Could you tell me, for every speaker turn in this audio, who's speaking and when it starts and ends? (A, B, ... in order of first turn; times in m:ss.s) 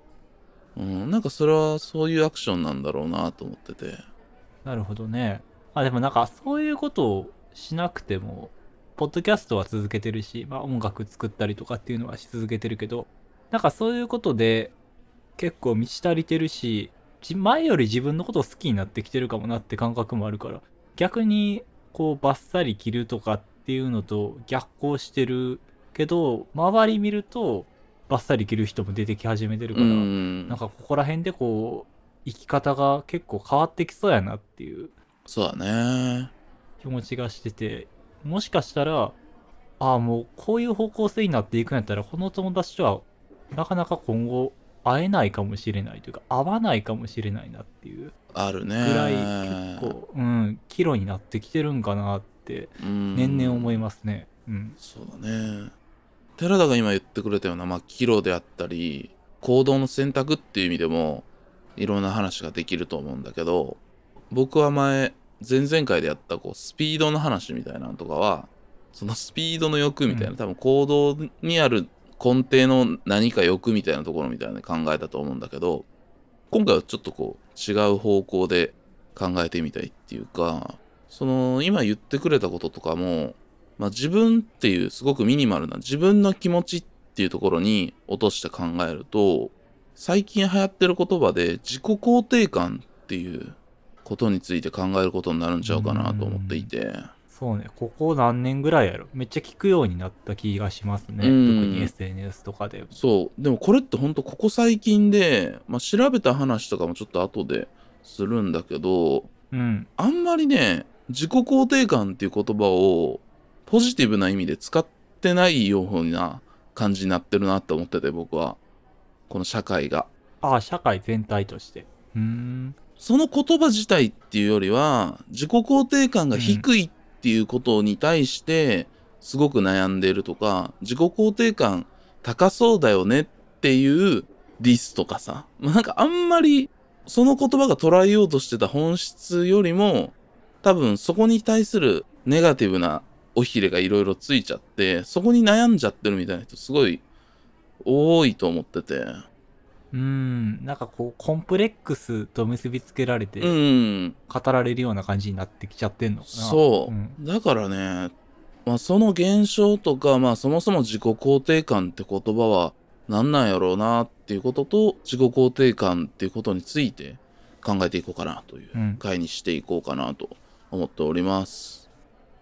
0:00.8-0:04.0 A
0:04.6-0:14.8 B
0:15.4-0:34.9 B
0:29.7-0:30.6 A
0:35.3-0:36.3 A
0:36.8-0:39.2 B
0:39.8-0:48.1 B
0:48.3-0:50.0 A
0:48.8-0:54.8 B
0:52.8-0:53.8 A
0:54.8-0:55.7 A
0:56.4-1:15.9 A
1:10.1-1:10.4 B
1:16.5-1:37.1 A
1:35.6-1:36.7 B
1:37.3-1:42.9 B
1:41.2-1:41.9 A
1:42.9-1:49.3 A
1:49.5-1:49.9 B
1:50.0-1:58.6 A
1:59.3-2:00.1 A
2:00.4-2:02.8 B
2:03.0-2:27.0 A
2:06.3-2:06.7 B
2:27.8-2:29.2 A
2:29.9-2:33.6 B
2:33.4-2:34.2 A
2:34.3-2:37.2 B
2:36.2-2:38.1 A
2:38.7-2:51.9 A
2:48.7-2:49.0 B